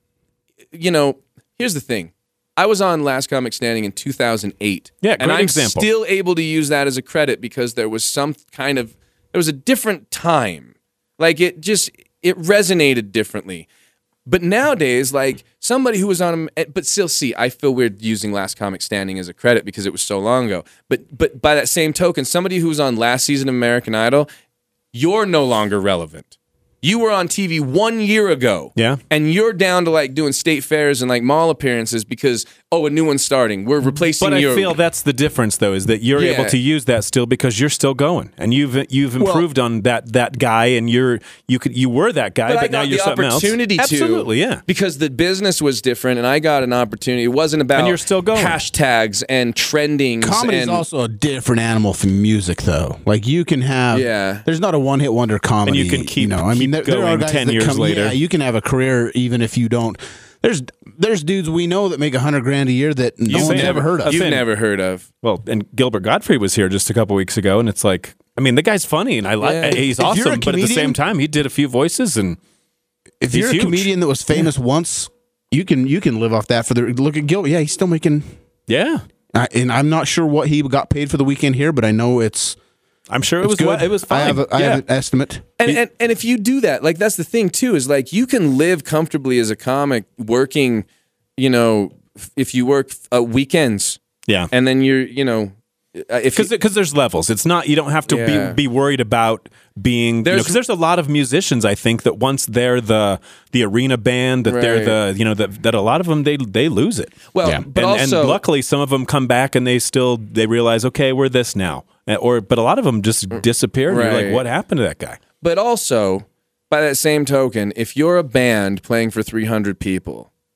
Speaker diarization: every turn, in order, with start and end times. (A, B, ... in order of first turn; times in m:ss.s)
0:00.7-0:13.7 A
0:05.0-0:05.9 B
0:14.3-0:24.3 A
0:24.9-0:26.3 A
0:26.8-0:34.7 A
0:34.2-0:44.6 B
0:36.2-0:36.6 A
0:39.2-0:39.5 C
0:42.5-0:50.8 A
0:47.8-0:48.6 B
0:50.2-1:04.2 C
0:53.9-0:54.5 A
0:55.6-0:58.2 B
1:03.3-1:05.1 A
1:03.3-1:04.5 B
1:05.2-1:12.4 B
1:09.4-1:09.8 A
1:09.8-1:11.0 C
1:13.2-1:18.3 C
1:13.3-1:13.9 B
1:18.7-1:19.0 B
1:19.3-1:22.6 C
1:23.1-1:24.8 B
1:23.4-1:25.5 C
1:25.6-1:30.9 A
1:31.4-1:34.0 A
1:34.5-1:36.5 A
1:36.4-1:47.2 B
1:38.1-1:38.6 A
1:40.2-1:40.6 A
1:44.5-1:45.0 A
1:47.3-1:48.4 A
1:47.7-1:55.2 B
1:53.4-1:54.4 A
1:55.4-2:00.3 A